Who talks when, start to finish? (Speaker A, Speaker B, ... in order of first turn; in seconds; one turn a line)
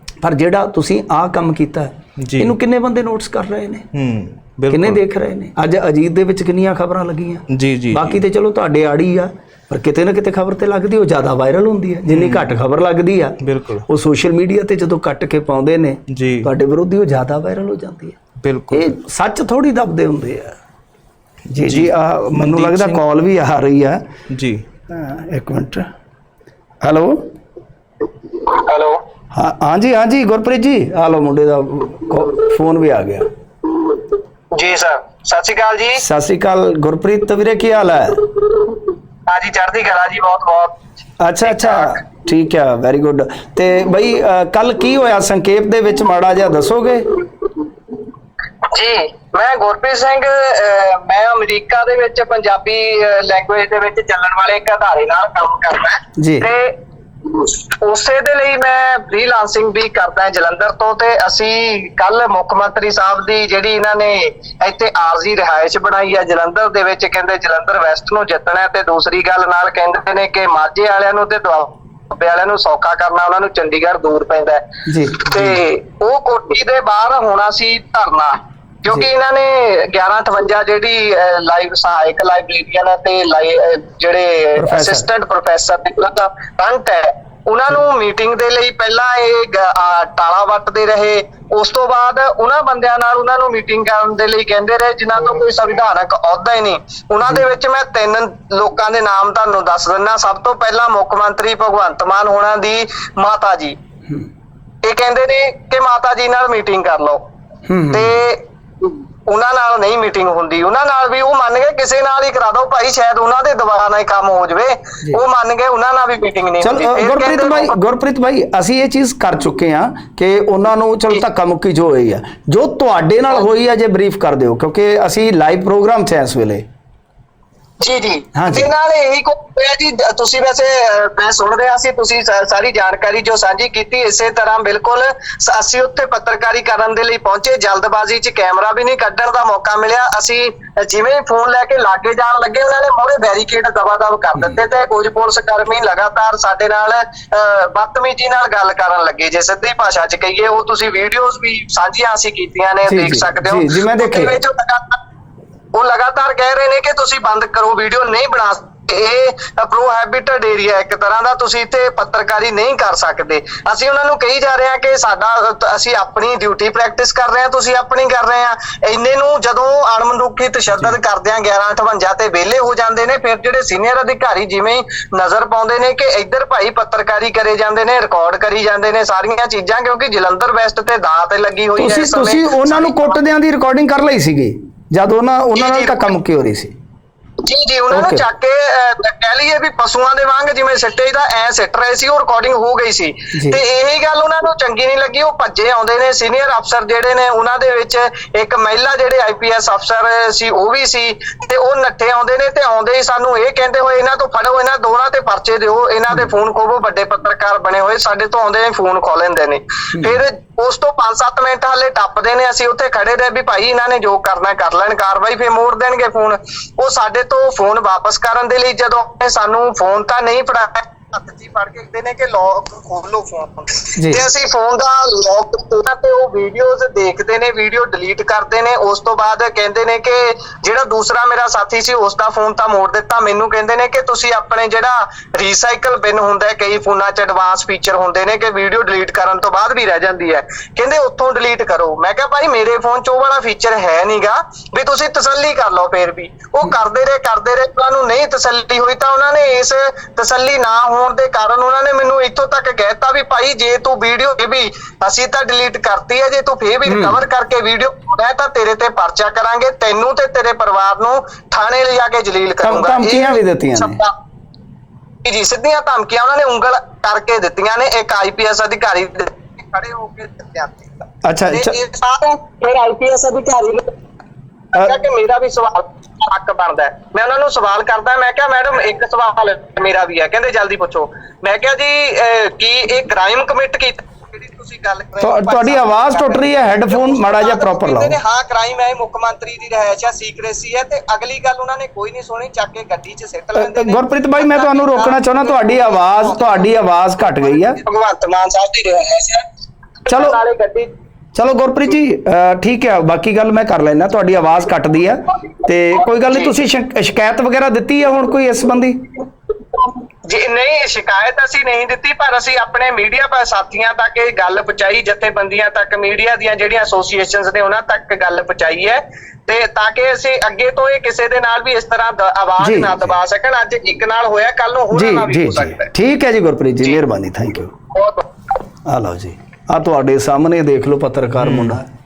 Speaker A: 0.2-3.9
Speaker B: 2.2-2.5
Speaker B: 3.9-5.0
Speaker A: 4.7-18.2
Speaker B: 7.5-8.2
Speaker B: 12.1-12.5
Speaker B: 13.4-13.8
Speaker B: 16.1-16.5
Speaker B: 18.4-18.9
Speaker A: 18.7-20.6
Speaker A: 21.5-24.0
Speaker B: 21.6-23.0
Speaker B: 24.3-24.6
Speaker A: 24.9-25.9
Speaker A: 26.8-27.2
Speaker C: 28.3-29.0
Speaker A: 29.3-33.3
Speaker C: 34.5-36.0
Speaker A: 36.0-38.3
Speaker C: 39.3-40.8
Speaker A: 41.2-47.2
Speaker C: 41.4-42.0
Speaker C: 48.7-103.8
Speaker A: 56.2-56.5
Speaker A: 74.8-75.6
Speaker A: 84.5-85.0
Speaker C: 104.8-107.2
Speaker A: 107.7-108.2
Speaker C: 107.9-117.8
Speaker A: 116.6-126.6
Speaker C: 127.8-155.0
Speaker A: 128.3-128.7
Speaker A: 152.9-154.4
Speaker C: 155.7-183.2
Speaker A: 181.8-186.7
Speaker C: 185.5-186.1
Speaker C: 187.4-264.1
Speaker A: 187.9-188.2
Speaker A: 193.3-193.6
Speaker A: 209.9-210.2
Speaker A: 224.0-224.2
Speaker A: 256.9-257.2
Speaker A: 262.6-264.0
Speaker C: 265.2-270.9
Speaker A: 271.2-271.8
Speaker C: 271.5-273.9
Speaker C: 274.7-299.4
Speaker A: 285.2-288.2
Speaker A: 293.5-297.8
Speaker C: 300.0-300.9
Speaker A: 300.1-300.4
Speaker A: 301.3-309.0
Speaker C: 306.3-306.5
Speaker C: 310.2-325.9
Speaker A: 322.6-323.1
Speaker A: 324.9-327.7
Speaker C: 327.9-328.3
Speaker A: 328.8-331.9
Speaker B: 331.4-331.8